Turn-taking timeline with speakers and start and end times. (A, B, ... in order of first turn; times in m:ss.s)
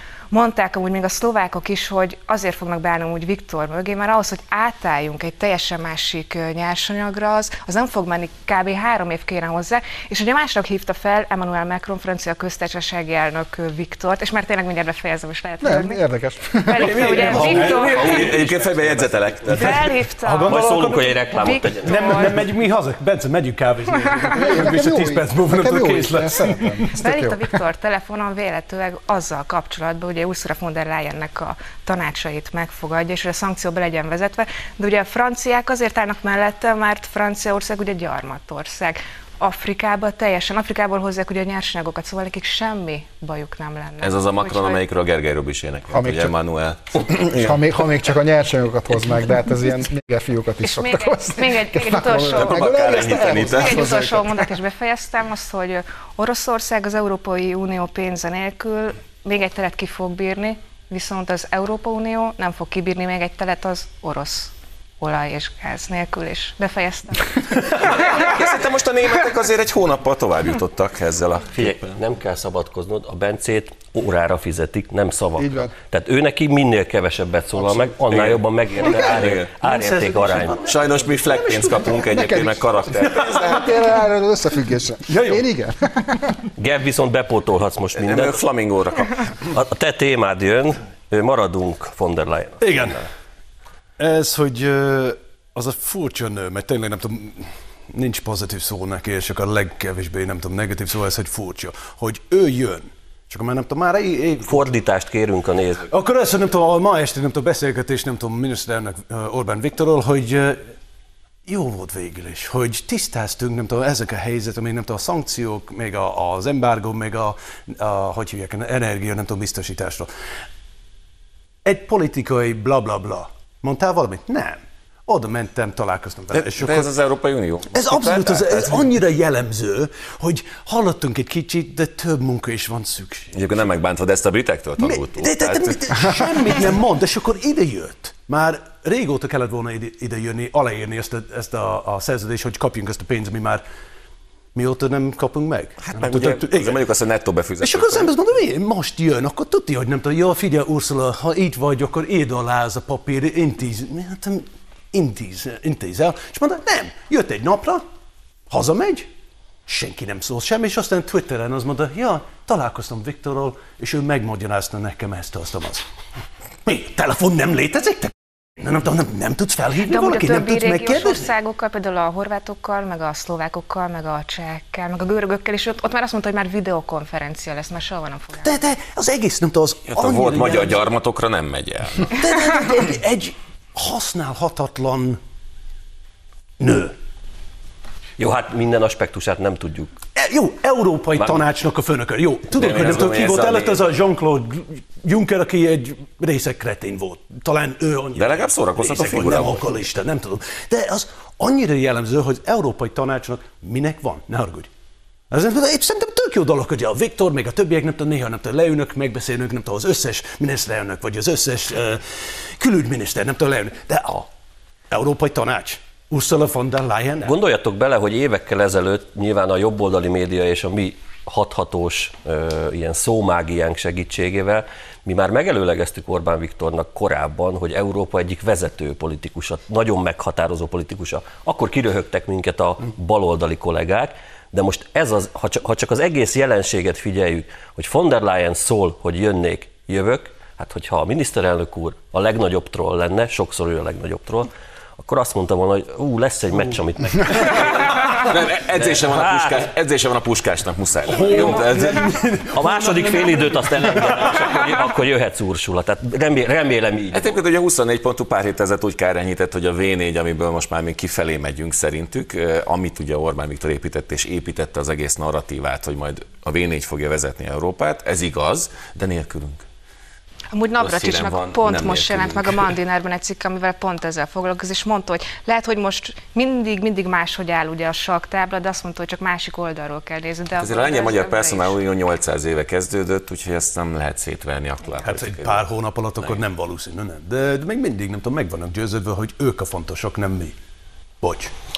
0:00.3-0:16.0 A
0:15.6-0:17.5 B
0:16.6-0:18.3 A
0:16.8-0:18.9 C
0:17.2-0:19.1 D
0:18.0-0:19.9 E
0:19.5-0:26.9 C
0:19.5-0:22.4 A
0:20.4-0:22.3 D
0:24.4-0:27.5 B
0:27.0-0:44.8 A
0:44.0-0:47.7 E
0:45.9-0:46.4 B
0:47.1-0:54.6 B
0:50.6-1:08.5 A
0:52.3-0:53.8 E
0:52.8-0:53.4 C
1:07.8-1:11.9 E
1:11.5-1:20.6 D
1:15.4-1:15.7 B
1:18.1-1:18.4 E
1:18.8-1:22.4 C
1:18.9-1:19.5 E
1:20.7-1:23.5 E
1:22.1-1:26.3 B
1:23.0-1:23.7 C
1:25.1-1:25.4 C
1:26.6-1:28.4 D
1:28.0-1:29.3 E
1:29.5-1:33.0 D
1:32.6-1:33.0 C
1:34.0-1:44.7 C
1:44.4-1:45.9 D
1:45.9-1:50.6 C
1:51.5-2:00.1 C
2:01.6-2:06.9 C
2:06.3-2:08.8 E
2:07.7-2:13.4 C
2:13.3-2:16.6 E
2:14.8-2:23.6 C
2:24.6-2:26.9 C
2:25.9-2:28.1 E
2:27.6-2:37.8 C
2:38.5-2:39.1 C
2:39.7-2:45.8 C
2:46.7-2:51.3 C
2:49.9-2:58.6 A
2:58.4-3:00.9 C
2:59.9-3:02.1 E
3:02.1-3:05.2 C
3:06.6-3:07.0 C
3:08.2-3:09.9 D
3:10.2-3:24.7 C
3:11.2-3:11.4 D
3:12.6-3:12.8 D
3:12.6-3:13.9 E
3:18.2-3:19.7 E
3:25.3-3:34.3 C
3:34.9-3:37.3 C
3:37.2-4:08.0 D
4:07.3-4:08.3 C
4:07.5-4:12.1 E
4:08.8-4:09.6 D
4:11.1-4:14.4 C
4:11.3-4:11.6 D
4:12.5-4:17.4 D
4:17.1-4:29.6 E
4:30.5-4:41.8 A
4:30.8-4:32.7 E
4:40.6-4:45.7 E
4:45.0-4:50.6 C
4:51.2-4:51.5 C